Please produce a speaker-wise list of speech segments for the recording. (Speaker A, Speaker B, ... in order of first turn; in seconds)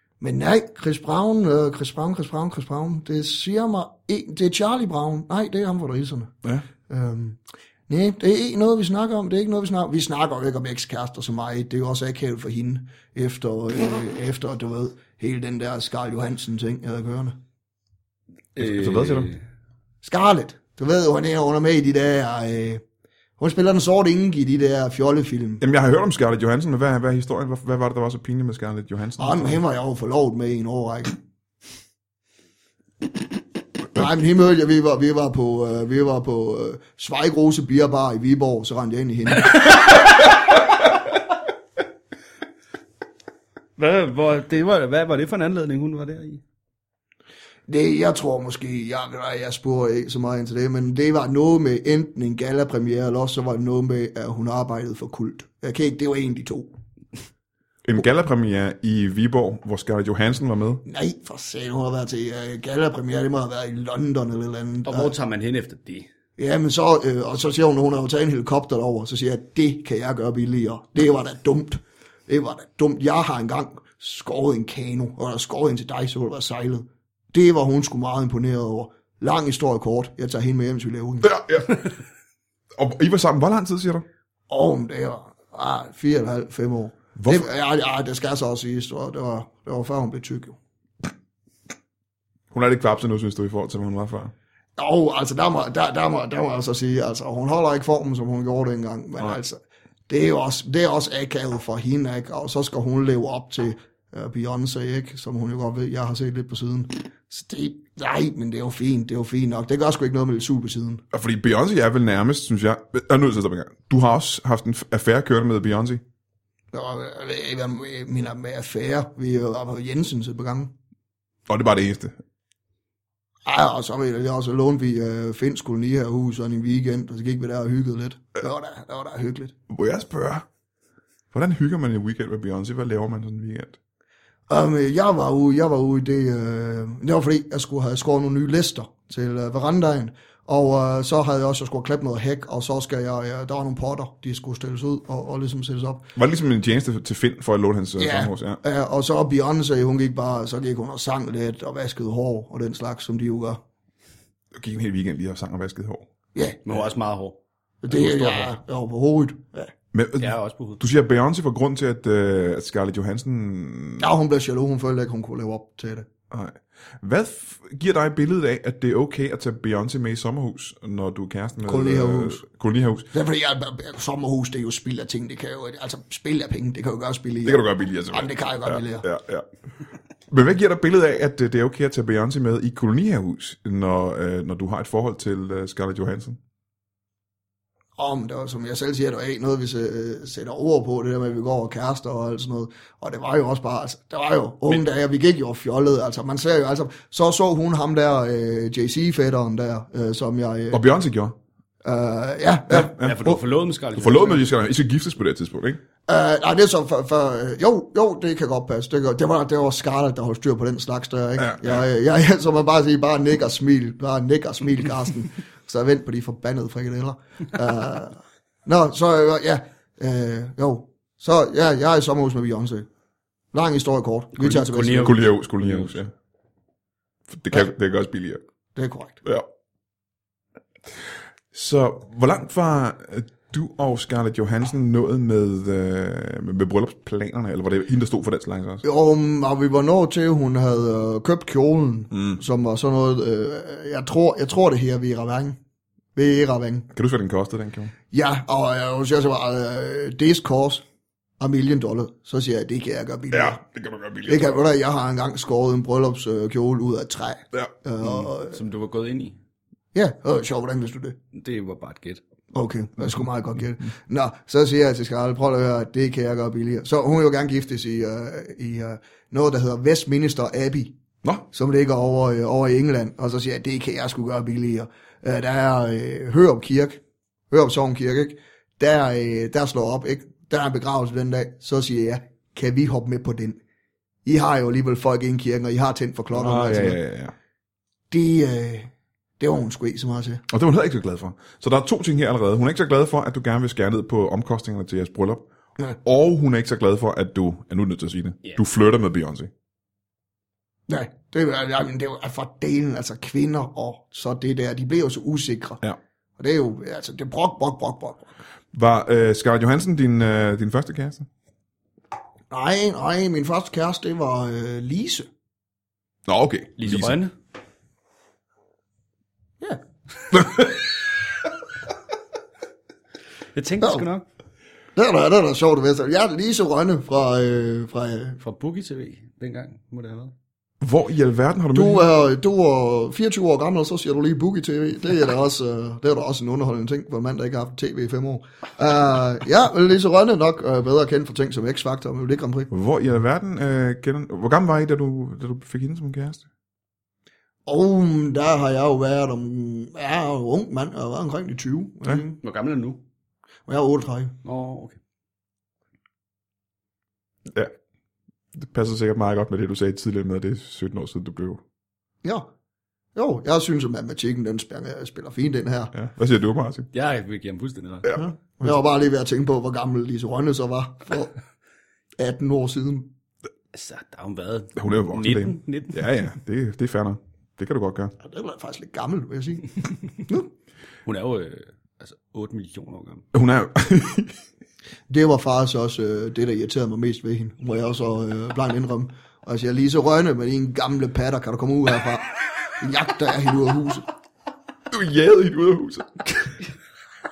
Speaker A: 0.2-6.3, 6.9-17.4, 20.0-22.8, 23.4-25.6, 29.2-31.1, 33.9-39.7, 47.7-56.7, 60.8-65.1, 66.4-81.3, 84.5-90.5, 94.8-99.6, 100.1-111.0, 116.7-120.7, 123.4-129.5, 134.5-146.1, 148.0-153.6, 156.3-156.7, 157.8-159.7, 164.0-166.1, 171.7-172.4, 173.1-179.0, 188.0-200.8, 201.8-202.9, 206.1-222.8, 223.5-225.2, 228.7-229.2, 238.8-245.6, 246.1-246.9, 248.1-250.8, 251.4-253.6, 254.2-258.6, 259.9-261.2, 262.5-270.9, 271.5-277.0, 277.5-283.6, 284.2-287.0, 288.1-290.4, 300.9-305.8, 306.4-308.3, 312.5-315.3, 320.3-320.7, 324.9-328.4, 331.7-342.7, 347.6-352.4, 353.7-354.4, 363.1-365.9, 368.1-371.4, 372.2-373.1, 378.2-380.5, 385.1-392.3, 392.8-394.0
Speaker B: 18.6-19.4, 43.8-46.4, 64.8-66.1, 156.7-158.5, 160.2-160.8, 203.0-204.4, 224.4-226.0, 258.5-259.4, 261.3-262.2, 316.8-317.3, 323.5-324.2, 328.4-330.3, 352.4-353.0, 354.4-355.0, 366.9-368.2, 373.7-376.0, 381.1-383.2
Speaker C: 18.6-19.3, 25.6-29.6, 57.9-60.8, 81.2-81.8, 82.8-84.0, 87.2-87.5, 92.5-94.3, 111.1-116.0, 121.5-122.2, 129.7-130.4, 131.3-133.8, 146.1-148.6, 154.5-156.1, 159.9-164.1, 166.3-173.1, 177.4-179.4, 180.3-186.4, 200.7-201.3, 202.7-203.4, 203.9-205.8, 211.4-211.8, 224.9-226.1, 227.3-228.4, 231.5-238.8, 242.1-242.4, 246.9-247.9, 253.3-254.6, 286.3-287.3, 290.5-295.5, 296.0-299.5, 308.7-311.3, 316.3-317.2, 330.8-332.0, 342.7-346.4, 358.5-361.6, 365.9-366.9, 374.8-378.1, 383.3-384.4, 394.9-396.5